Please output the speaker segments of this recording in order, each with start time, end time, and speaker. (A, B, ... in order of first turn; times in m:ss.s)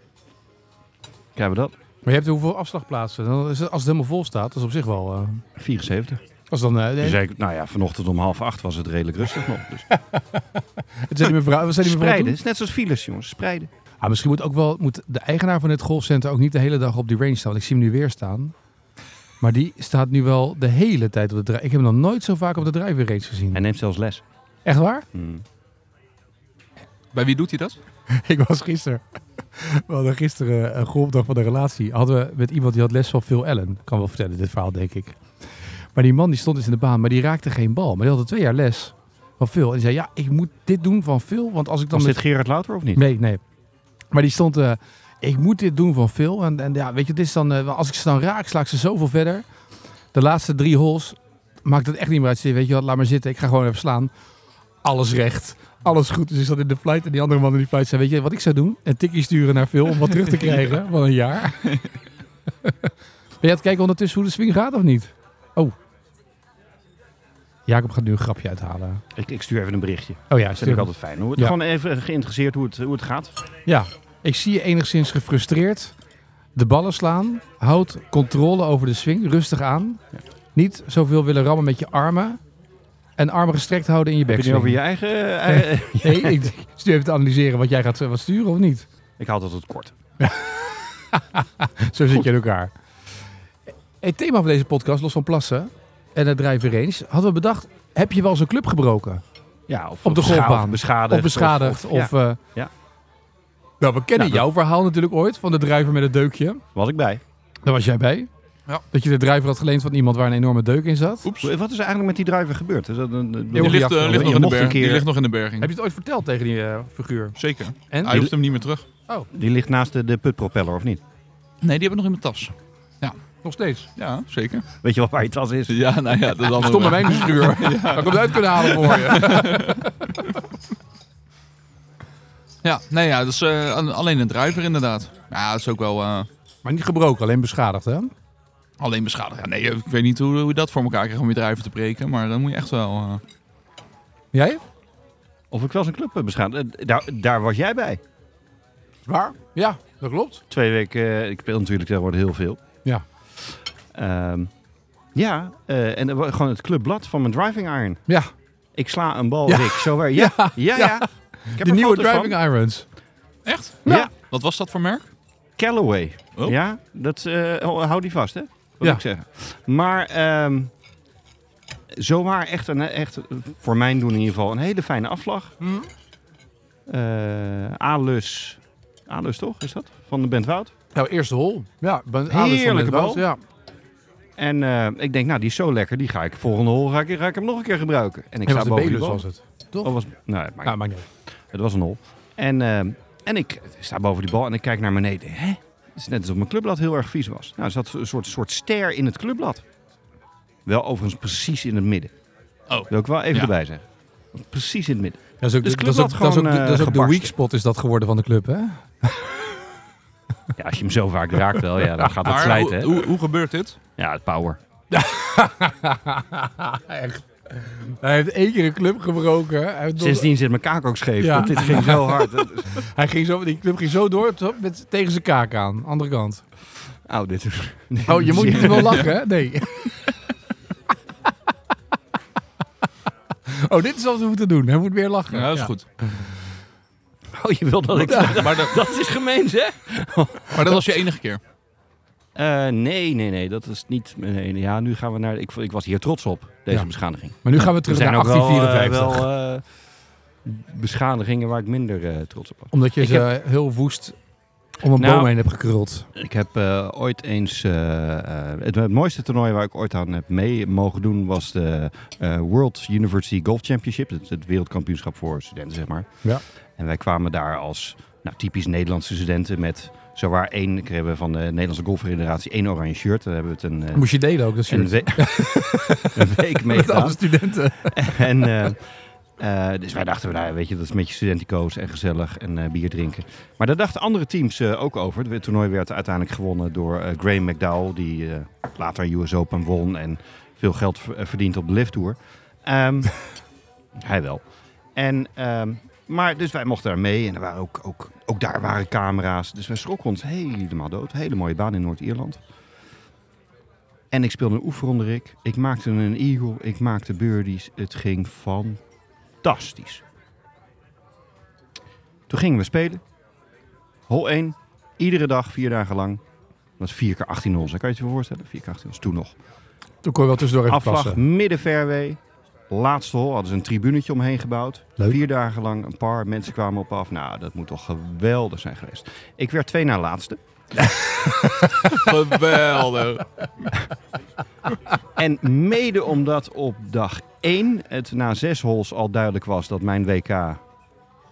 0:01.4-0:01.7 A
0:02.0-0:05.4 B
0:05.6-0:06.2 A
0:06.5-0:07.2 B
0:07.0-0:09.8 A
0:09.9-0:12.4 B
0:11.8-0:13.7 A
0:14.0-0:18.5 B
0:19.4-0:23.6 B
0:23.5-0:24.2 A
0:24.6-0:25.0 B
0:25.1-0:25.4 A
0:27.1-0:27.8 C
0:28.1-0:35.2 B
0:35.9-0:42.2 B
0:41.9-0:43.0 A
0:43.0-0:43.4 B
0:44.1-0:49.4 B
0:50.1-0:54.1 B
0:54.8-1:01.8 B
1:02.6-1:05.7 B
1:07.7-1:09.0 B
1:09.1-1:13.3 A
1:10.3-1:11.5 B
1:13.6-1:15.9 B
1:16.6-1:20.0 B
1:20.5-1:22.4 B
1:23.2-1:24.8 B
1:24.3-1:26.5 A
1:25.5-1:28.9 B
1:29.2-1:29.9 A
1:30.2-1:32.7 B
1:34.0-1:39.2 B
1:39.7-1:42.7 A
1:40.0-1:42.4 B
1:43.8-1:46.6 B
1:44.2-1:44.4 A
1:46.7-1:47.2 A
1:47.6-1:48.3 B
1:48.9-1:51.3 B
1:51.2-1:51.5 C
1:51.4-1:55.1 A
1:53.5-1:54.4 B
1:53.5-1:55.7 C
1:55.6-1:57.4 B
1:57.4-1:58.8 C
1:57.9-1:58.2 B
1:58.1-1:58.3 A
1:59.3-2:01.0 A
2:01.6-2:03.2 C
2:03.4-2:03.9 B
2:04.0-2:04.6 C
2:04.8-2:05.8 A
2:05.7-2:09.8 C
2:06.5-2:10.1 B
2:12.6-2:16.3 C
2:16.6-2:18.1 B
2:18.8-2:23.2 C
2:24.3-2:24.6 B
2:25.5-2:28.0 A
2:29.1-2:30.4 B
2:30.5-2:32.6 A
2:33.9-2:34.5 A
2:35.1-2:38.0 A
2:38.7-2:42.4 A
2:39.5-2:42.9 B
2:43.4-2:45.1 C
2:45.6-2:50.7 A
2:51.9-2:55.5 A
2:55.6-2:55.9 B
2:56.9-3:00.7 A
3:00.9-3:03.4 B
3:02.3-3:03.2 A
3:04.4-3:09.2 A
3:08.4-3:09.9 B
3:09.8-3:10.8 A
3:10.6-3:11.0 B
3:11.5-3:19.6 A
3:20.6-3:22.1 A
3:22.7-3:23.5 C
3:22.9-3:27.3 A
3:25.4-3:29.4 B
3:30.6-3:33.1 A
3:32.2-3:33.8 C
3:34.0-3:34.6 A
3:34.9-3:40.3 B
3:40.0-3:42.8 A
3:41.2-3:46.4 B
3:47.0-3:49.1 A
3:48.0-3:50.1 B
3:48.3-3:49.1 C
3:53.5-3:56.2 B
3:55.3-3:55.8 C
3:57.3-4:00.8 A
3:58.0-3:58.6 B
3:58.4-3:58.7 C
4:00.5-4:01.4 C
4:02.3-4:09.6 A
4:07.4-4:09.2 B
4:10.4-4:13.3 A
4:12.7-4:14.2 B
4:14.8-4:16.1 B
4:15.0-4:15.3 A
4:16.1-4:26.1 A
4:26.8-4:34.1 A
4:33.9-4:38.3 B
4:34.6-4:37.3 A
4:37.8-4:53.2 A
4:54.0-4:54.4 A
4:54.9-5:02.4 A
5:04.1-5:08.8 A
5:09.4-5:10.0 A
5:12.3-5:13.0 A
5:14.1-5:16.2 A
5:16.8-5:19.4 A
5:20.0-5:21.2 B
5:20.7-5:30.4 A
5:31.0-5:31.9 B
5:31.8-5:33.7 C
5:35.2-5:40.6 A